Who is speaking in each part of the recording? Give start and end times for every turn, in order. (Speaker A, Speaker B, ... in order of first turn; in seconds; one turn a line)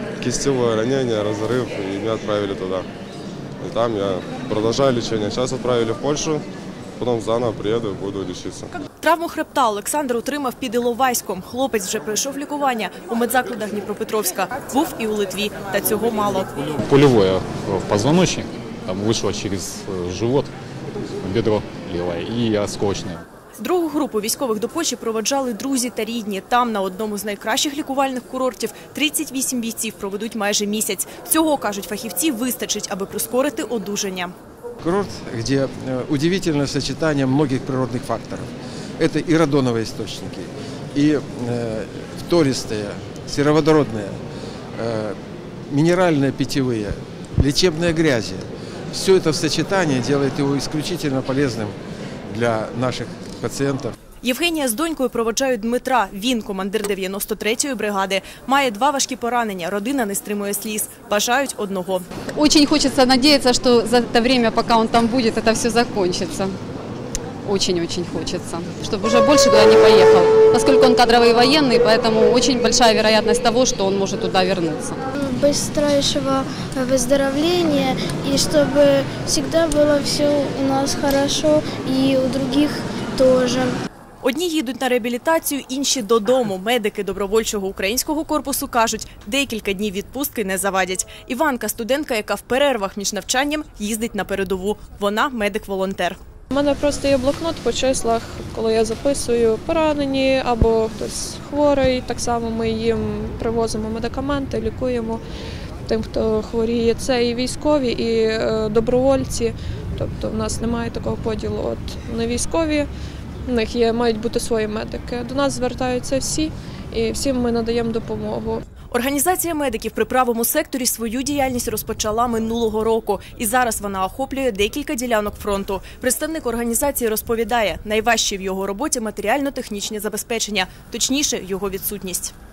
Speaker A: 0.2-2.9
Speaker A: 3.6-6.4
Speaker A: 7.0-8.7
Speaker B: 9.0-16.5
Speaker C: 16.8-20.5
Speaker C: 21.2-23.2
Speaker B: 23.6-34.3
Speaker D: 34.8-44.2
Speaker D: 44.8-45.2
Speaker D: 45.7-53.9
Speaker B: 54.2-62.0
Speaker E: 62.3-66.6
Speaker E: 67.4-75.0
Speaker F: 75.2-83.8
Speaker B: 84.2-96.2
Speaker G: 96.5-105.2
Speaker G: 105.9-112.9
Speaker G: 113.5-118.6
Speaker B: 118.9-132.3